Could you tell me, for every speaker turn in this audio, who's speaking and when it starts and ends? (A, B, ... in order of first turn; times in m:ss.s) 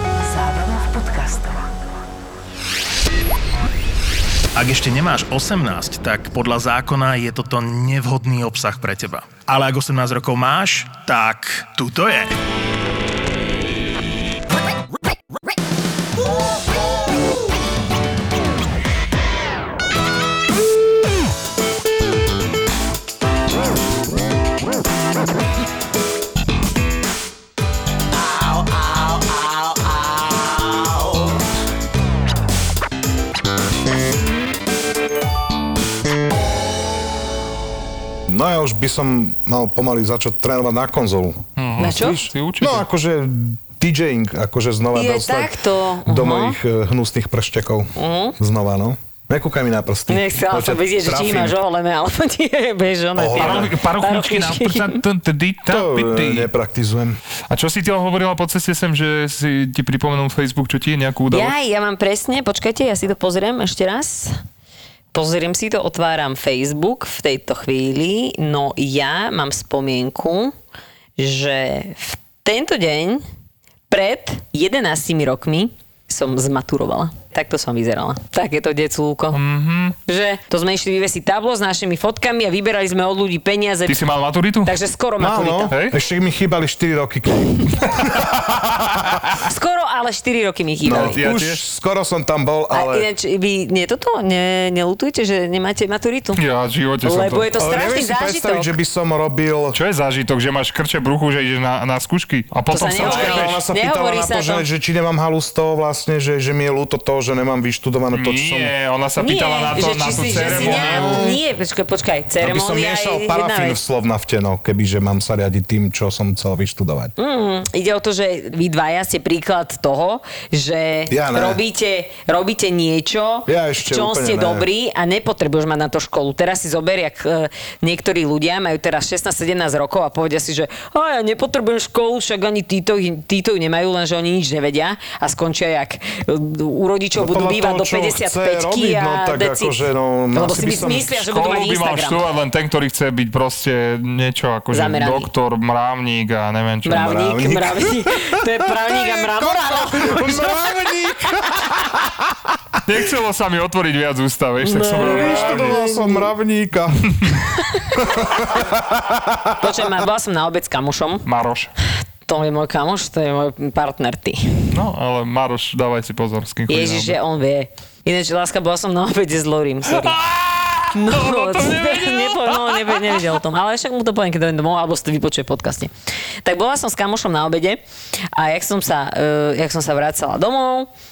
0:04.6-0:12.3 A
0:38.3-0:51.6 B
0:41.6-0:42.9 C
0:41.8-0:42.2 D
0:44.9-0:46.6 D
0:48.0-0:48.4 D
0:50.1-0:55.0 D
0:53.2-0:53.7 B
0:53.4-0:56.5 C
0:55.7-0:57.2 B
0:57.5-1:01.5 C
1:01.3-1:04.3 D
1:05.1-1:10.5 D
1:11.2-1:13.2 D
1:13.9-1:19.4 D
1:19.3-1:20.0 C
1:20.1-1:24.0 D
1:23.9-1:24.7 C
1:24.6-1:25.8 D
1:25.2-1:29.1 B
1:25.7-1:26.0 C
1:29.4-1:31.2 D
1:30.8-1:33.1 B
1:30.9-1:31.6 C
1:32.7-1:36.4 D
1:36.4-1:37.5 C
1:37.0-1:38.8 D
1:37.6-1:39.8 B
1:39.7-1:43.6 C
1:42.7-1:44.7 D
1:42.9-1:48.7 B
1:48.1-1:51.3 C
1:49.2-1:53.8 D
1:50.1-1:51.4 B
1:52.4-1:57.1 B
1:57.2-2:22.2 D
2:01.1-2:01.6 B
2:03.5-2:04.7 B
2:17.2-2:21.2 B
2:21.1-2:27.1 C
2:24.7-2:25.3 D
2:26.8-2:30.6 D
2:27.0-2:28.0 B
2:28.9-2:32.2 B
2:32.8-2:35.8 C
2:34.6-2:36.3 D
2:35.0-2:37.4 B
2:37.9-2:39.6 B
2:39.6-2:41.3 D
2:41.2-2:41.7 C
2:42.2-2:44.7 D
2:44.7-2:47.2 C
2:46.7-2:50.2 D
2:49.9-2:53.4 C
2:50.9-2:55.9 D
2:56.4-2:57.8 D
2:58.3-3:00.9 D